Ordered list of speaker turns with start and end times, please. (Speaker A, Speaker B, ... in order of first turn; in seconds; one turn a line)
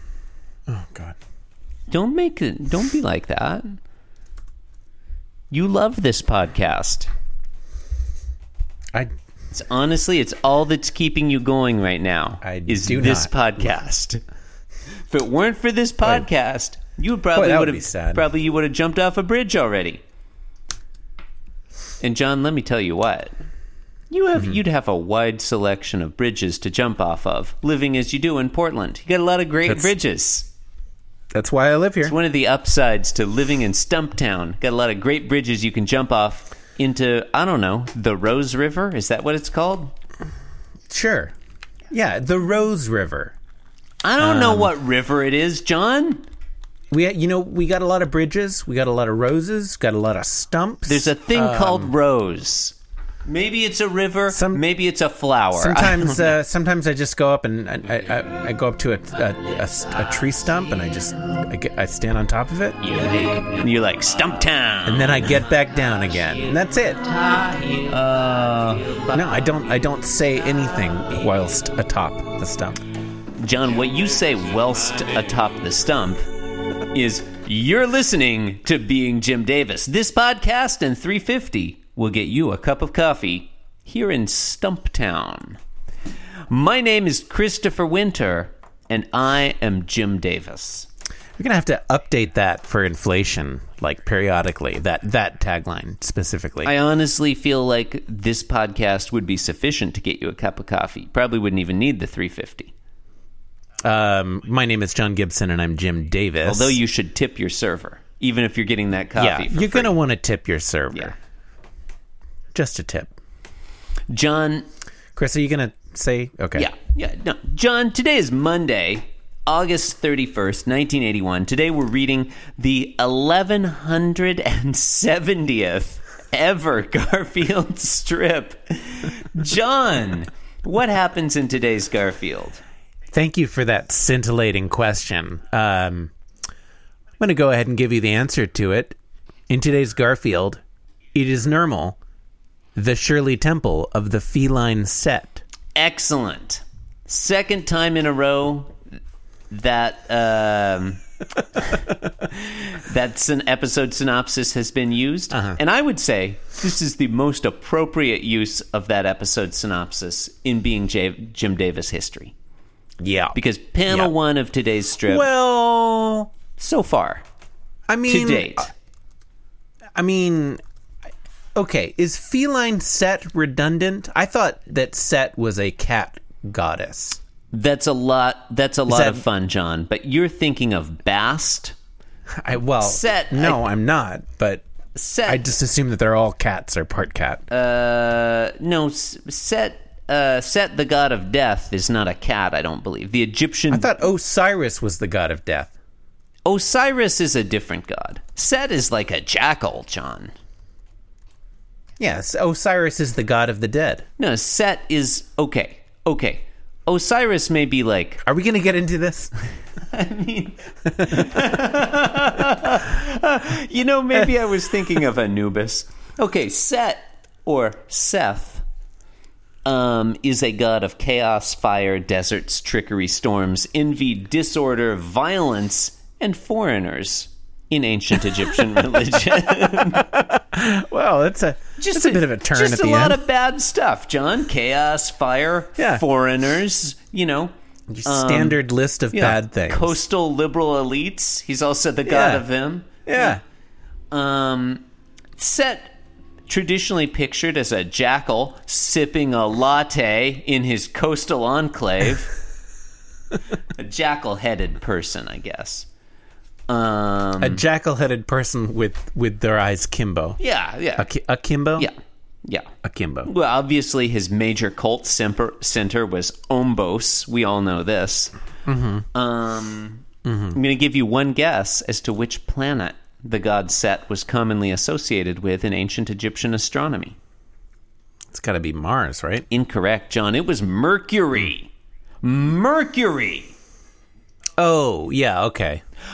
Speaker A: 0.7-1.2
Speaker B: 1.9-3.8
Speaker B: 5.5-7.1
Speaker B: 9.5-14.2
Speaker A: 12.4-13.3
Speaker B: 15.1-20.0
Speaker A: 17.4-18.3
Speaker B: 22.0-23.3
Speaker B: 24.1-30.5
Speaker A: 31.3-32.2
Speaker B: 32.0-39.9
Speaker A: 40.9-41.3
Speaker A: 41.9-43.4
Speaker B: 44.0-46.2
Speaker A: 44.2-44.7
Speaker A: 46.9-51.9
Speaker B: 50.9-52.8
Speaker B: 53.3-56.3
Speaker A: 54.3-54.6
Speaker A: 55.5-63.0
Speaker B: 62.8-65.4
Speaker A: 64.8-67.1
Speaker B: 67.1-69.1
Speaker A: 69.1-72.8
Speaker B: 73.4-76.2
Speaker B: 76.9-85.6
Speaker B: 86.5-90.9
Speaker A: 91.4-96.7
Speaker B: 96.6-102.7
Speaker A: 103.8-106.8
Speaker B: 106.4-110.0
Speaker A: 109.2-111.2
Speaker A: 112.5-113.1
Speaker B: 114.1-114.7
Speaker A: 115.2-116.7
Speaker B: 116.5-132.6
Speaker A: 133.1-136.1
Speaker A: 137.2-139.0
Speaker A: 139.5-140.6
Speaker A: 141.2-142.0
Speaker A: 142.8-145.4
Speaker B: 145.8-148.7
Speaker B: 149.5-151.0
Speaker B: 151.5-162.3
Speaker A: 155.3-155.6
Speaker A: 163.0-163.4
Speaker B: 163.3-165.3
Speaker A: 163.9-164.1
Speaker A: 165.1-166.3
Speaker B: 166.6-167.2
Speaker A: 167.9-168.7
Speaker B: 168.1-168.7
Speaker A: 170.0-170.6
Speaker A: 171.6-177.2
Speaker B: 177.5-181.8
Speaker A: 178.9-179.2
Speaker A: 182.4-184.7
Speaker B: 182.8-183.6
Speaker B: 184.9-185.4
Speaker A: 185.3-187.4
Speaker B: 187.5-193.9
Speaker A: 193.7-195.8
Speaker B: 196.4-200.3
Speaker A: 202.0-204.1
Speaker B: 204.2-208.2
Speaker A: 208.3-209.3
Speaker B: 209.8-218.6
Speaker B: 219.7-230.2
Speaker A: 229.5-233.2
Speaker B: 231.8-237.5
Speaker A: 235.8-236.0
Speaker A: 237.9-240.0
Speaker B: 238.1-238.6
Speaker B: 239.1-243.4
Speaker A: 242.1-242.4
Speaker A: 243.1-243.4
Speaker B: 244.1-244.8
Speaker B: 245.4-245.9
Speaker B: 246.5-252.3
Speaker B: 253.8-255.9
Speaker B: 256.7-257.6
Speaker A: 257.4-260.4
Speaker B: 260.4-261.1
Speaker A: 261.0-261.9
Speaker B: 261.8-262.7
Speaker A: 262.8-263.3
Speaker B: 263.3-268.3
Speaker A: 268.7-269.1
Speaker B: 269.1-277.2
Speaker A: 270.2-270.6
Speaker A: 278.3-279.5
Speaker B: 279.5-283.6
Speaker A: 284.6-285.8